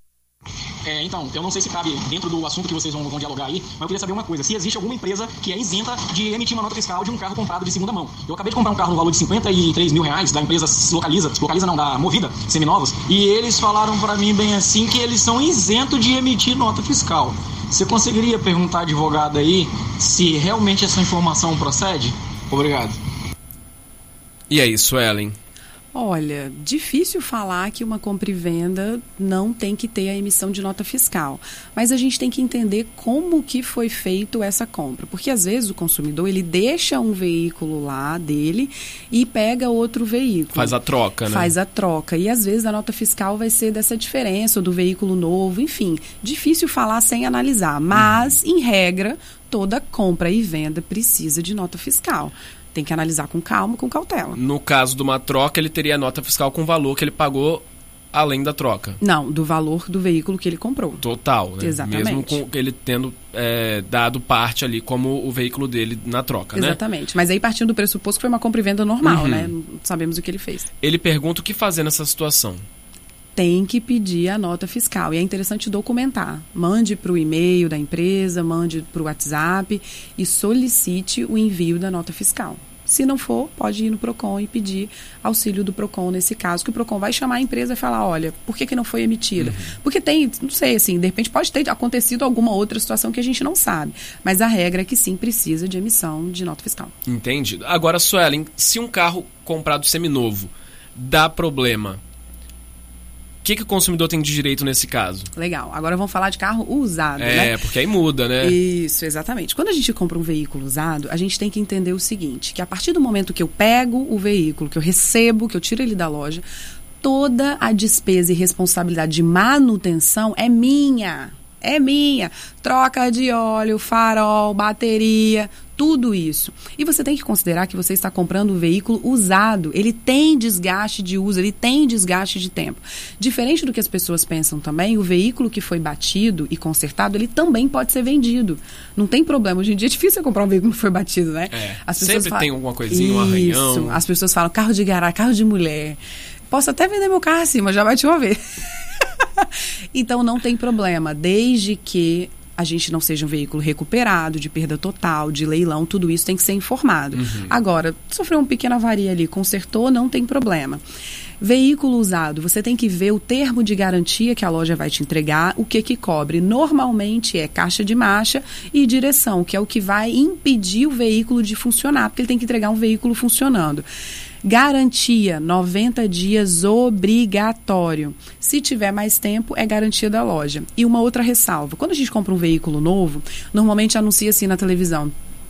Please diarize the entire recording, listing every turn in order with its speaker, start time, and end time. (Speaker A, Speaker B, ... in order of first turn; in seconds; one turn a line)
Speaker A: 0.8-23.0
Speaker B: 24.5-25.3
Speaker C: 25.9-40.7
Speaker B: 40.5-41.5
Speaker C: 41.2-54.4
Speaker B: 47.9-48.3
Speaker B: 54.3-59.0
Speaker C: 59.0-61.0
Speaker B: 61.0-66.8
Speaker C: 61.6-62.4
Speaker C: 66.5-70.7
Speaker B: 69.0-69.5
Speaker B: 70.8-72.6
Speaker C: 73.3-96.9
Speaker B: 89.4-89.7
Speaker B: 97.0-102.0
Speaker B: 103.4-105.3
Speaker C: 105.3-107.6
Speaker B: 107.2-108.6
Speaker C: 108.4-116.4
Speaker C: 117.0-160.8
Speaker B: 141.5-144.0
Speaker B: 157.1-157.5
Speaker C: 161.4-173.8
Speaker C: 174.4-185.1